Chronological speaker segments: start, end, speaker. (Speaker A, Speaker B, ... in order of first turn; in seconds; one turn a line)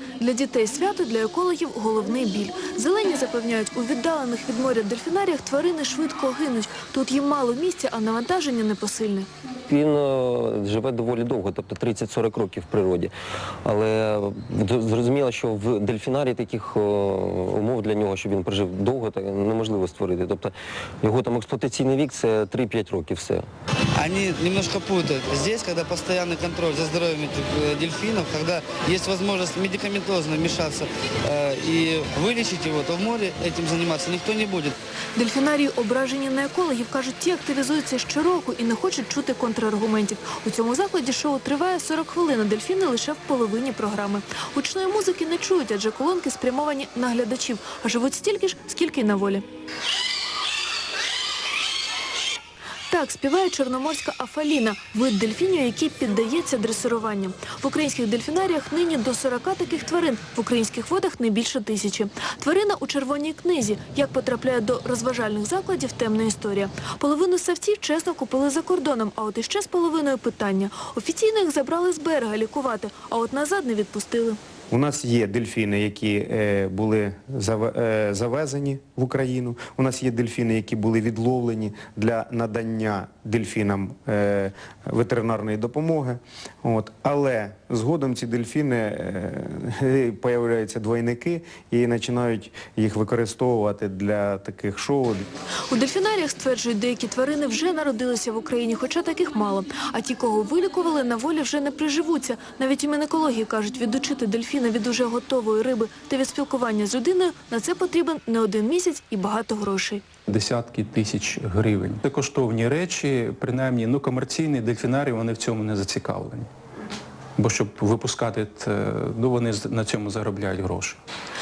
Speaker A: 0.2-9.3
Speaker B: 9.7-13.1
Speaker B: 13.7-20.5
Speaker B: 21.1-23.4
Speaker C: 23.9-34.7
Speaker A: 35.1-49.4
Speaker A: 52.9-74.4
Speaker D: 74.7-95.2
Speaker A: 95.7-110.0
Speaker E: 110.3-116.5
Speaker E: 117.4-121.0